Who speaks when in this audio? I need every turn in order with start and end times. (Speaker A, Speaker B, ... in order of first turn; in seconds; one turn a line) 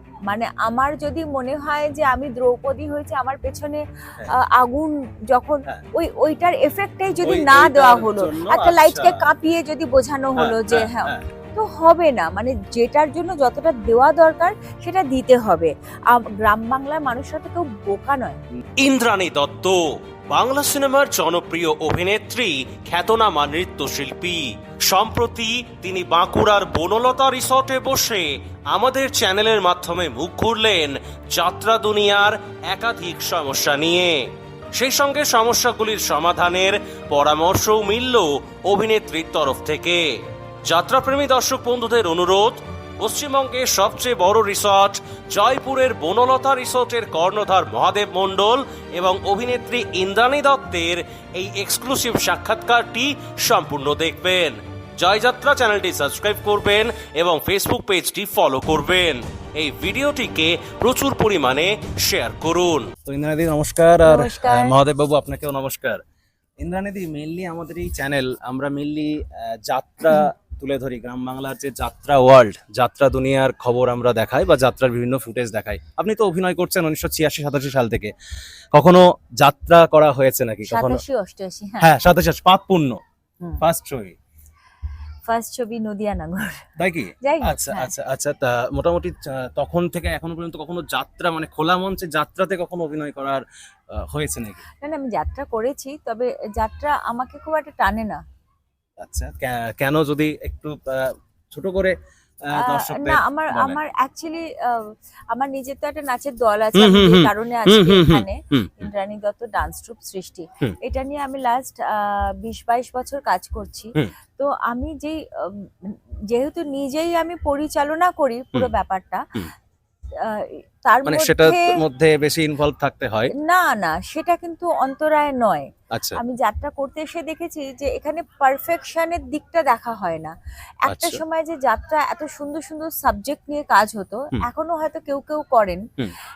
Speaker A: 0.3-18.4
Speaker B: 7.2-9.2
Speaker B: 10.3-11.2
Speaker C: 18.8-40.1
Speaker C: 40.6-63.0
Speaker B: 63.0-66.0
Speaker A: 64.0-64.8
Speaker B: 66.6-78.1
Speaker B: 78.7-81.0
Speaker A: 80.7-81.9
Speaker B: 81.8-83.0
Speaker B: 83.6-84.2
Speaker A: 85.2-86.7
Speaker B: 86.8-94.6
Speaker A: 87.2-87.9
Speaker A: 94.8-98.2
Speaker B: 99.0-103.8
Speaker A: 102.5-119.2
Speaker B: 106.7-108.9
Speaker A: 120.2-121.8
Speaker B: 121.0-123.3
Speaker A: 123.4-130.3
Speaker B: 125.9-126.2
Speaker A: 130.8-135.8
Speaker B: 130.9-131.2